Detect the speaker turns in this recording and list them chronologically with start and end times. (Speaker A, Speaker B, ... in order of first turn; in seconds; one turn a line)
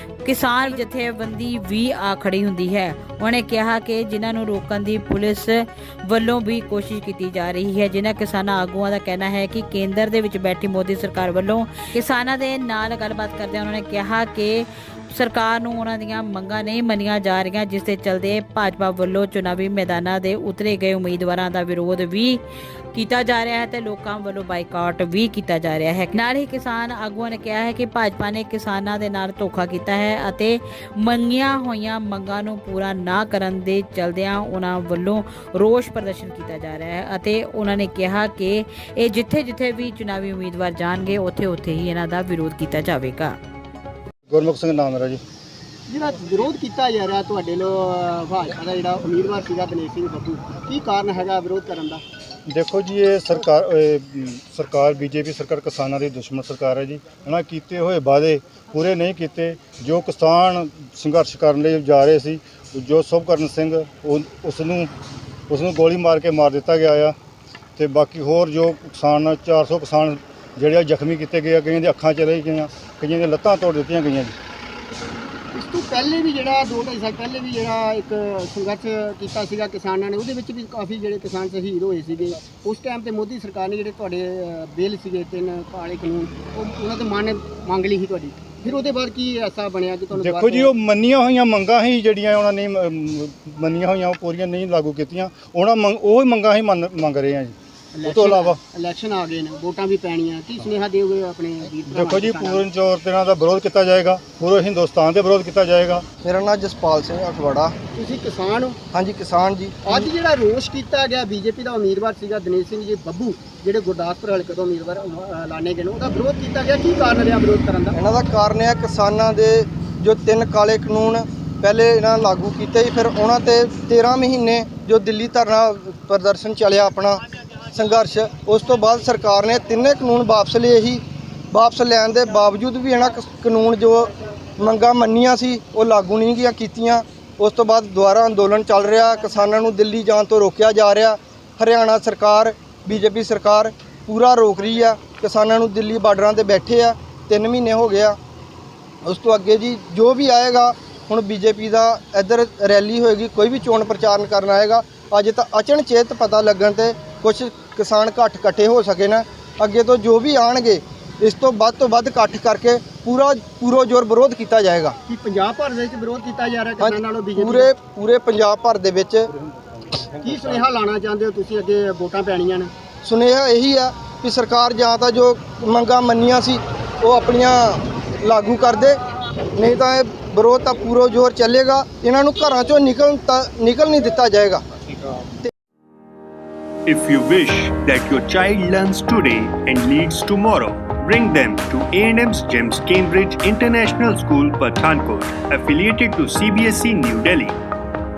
Speaker A: 0.2-22.4
Speaker A: 22.9-43.4
Speaker B: 44.3-45.2
Speaker C: 45.9-52.0
Speaker B: 52.5-64.9
Speaker B: 65.5-67.1
Speaker B: 67.8-74.3
Speaker C: 75.5-90.7
Speaker B: 90.1-98.6
Speaker C: 97.9-102.7
Speaker B: 101.9-106.0
Speaker D: 106.2-107.7
Speaker C: 107.9-108.8
Speaker D: 108.9-110.1
Speaker C: 109.8-117.9
Speaker D: 117.9-148.2
Speaker D: 149.0-164.9
Speaker C: 165.1-167.7
Speaker D: 166.8-169.3
Speaker B: 169.5-170.6
Speaker C: 170.2-172.7
Speaker D: 173.0-179.0
Speaker D: 179.6-184.6
Speaker E: 186.8-197.6